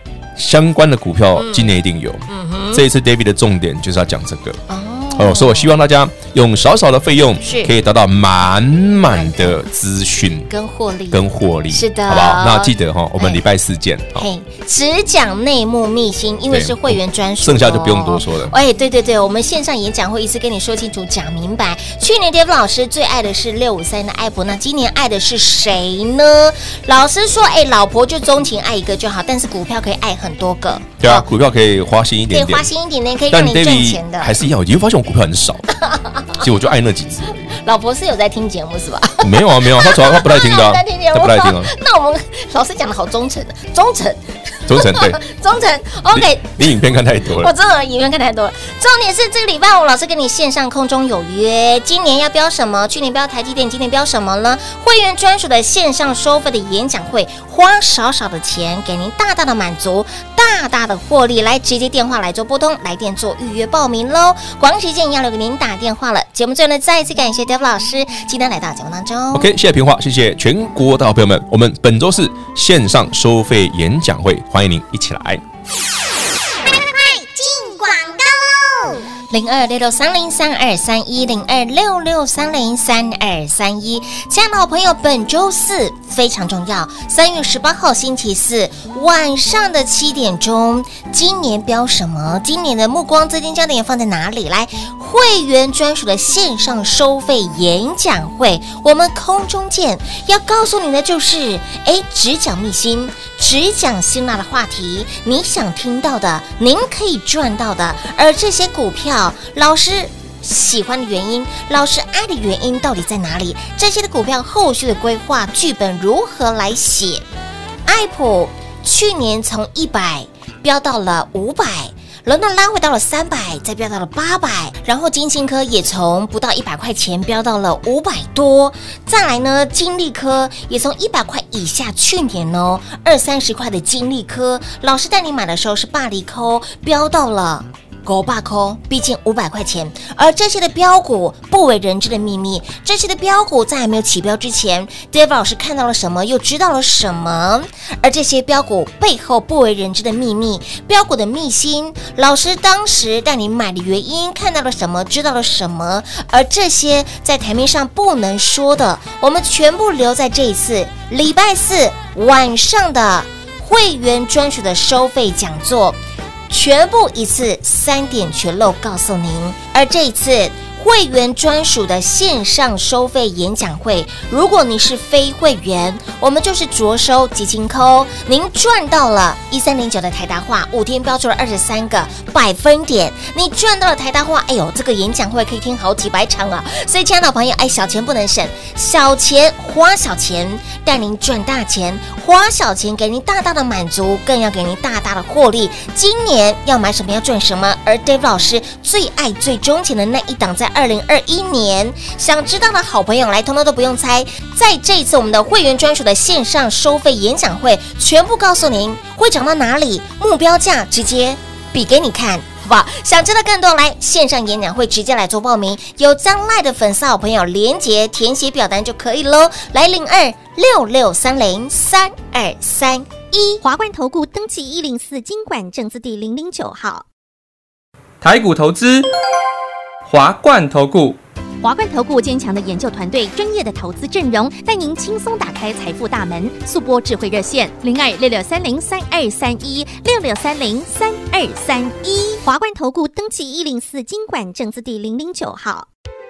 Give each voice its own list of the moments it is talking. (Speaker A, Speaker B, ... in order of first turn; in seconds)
Speaker A: 0.4-4.6, 5.2-10.5, 11.1-14.3, 16.5-18.6, 31.0-32.7, 33.3-35.7, 36.4-37.6, 39.2-41.7, 44.7-45.2, 46.1-47.5, 69.3-75.4
Speaker B: 1.4-2.9, 4.7-5.7, 7.4-7.7, 9.1-9.6, 10.5-13.4, 14.2-31.3, 32.3-34.4, 35.8-36.4, 37.5-69.5, 79.3-117.2, 117.9-166.0, 166.5-223.6
Speaker C: 75.7-79.0
Speaker D: 223.6-227.1, 231.6-245.9
Speaker E: 228.2-229.1, 230.1-231.2